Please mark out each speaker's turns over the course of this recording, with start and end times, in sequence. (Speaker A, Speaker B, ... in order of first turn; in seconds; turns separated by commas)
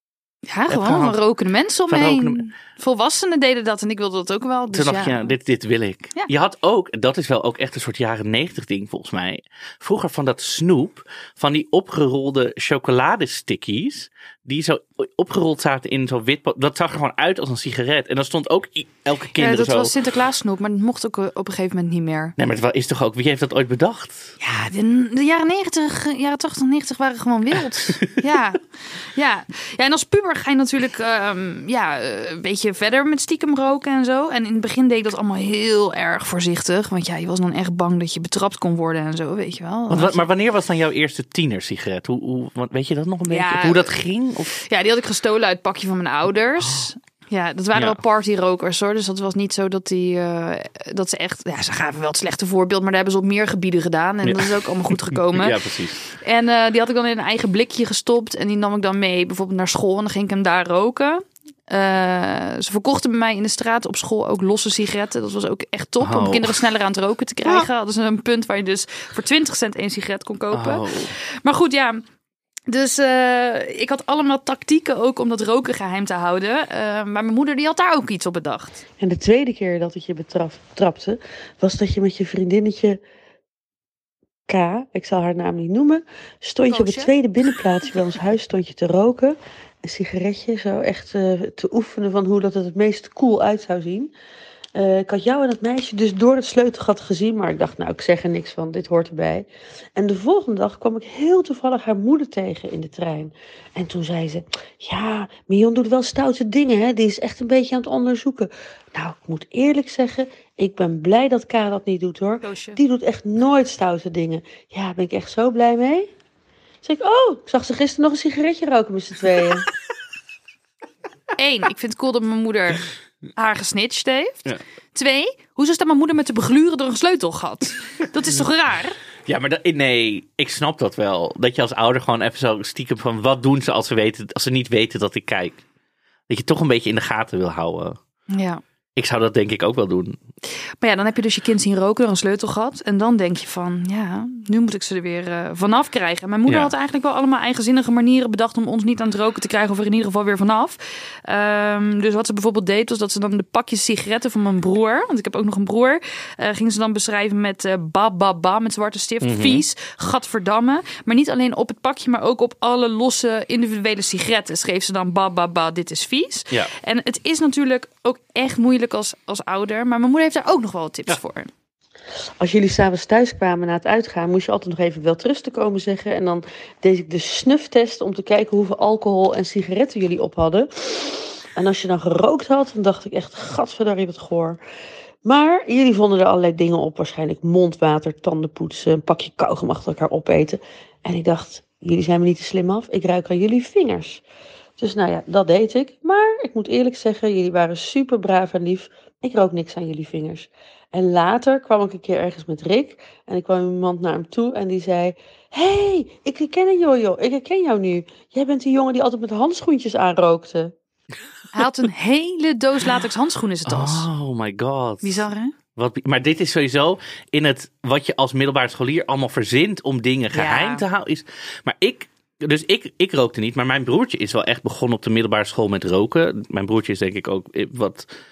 Speaker A: 0.5-5.3, Speaker B: 0.7-1.2, Speaker B: 1.9-2.5, Speaker B: 4.7-19.9, Speaker A: 19.4-22.3, Speaker B: 22.4-24.4, Speaker A: 24.4-40.2, Speaker B: 39.9-44.6, Speaker A: 43.3-43.9, Speaker A: 44.5-72.0, Speaker B: 46.6-46.9, Speaker B: 54.2-56.0, Speaker B: 66.0-66.5, Speaker B: 70.5-71.1, Speaker A: 72.7-78.8, Speaker C: 79.0-83.0, Speaker C: 84.5-94.1, Speaker A: 86.7-87.1, Speaker C: 94.7-116.1, Speaker A: 112.4-112.8, Speaker C: 116.8-119.7, Speaker A: 121.4-122.8, Speaker A: 123.3-129.0, Speaker B: 129.2-135.6, Speaker B: 136.3-138.0, Speaker A: 138.3-138.6, Speaker B: 138.9-140.2, Speaker A: 140.8-171.5, Speaker B: 159.2-159.6, Speaker C: 172.4-184.6, Speaker C: 185.2-194.2, Speaker C: 194.8-210.7, Speaker A: 211.5-214.1, Speaker B: 213.6-215.2, Speaker A: 215.0-215.5, Speaker B: 215.7-228.1, Speaker A: 220.3-220.8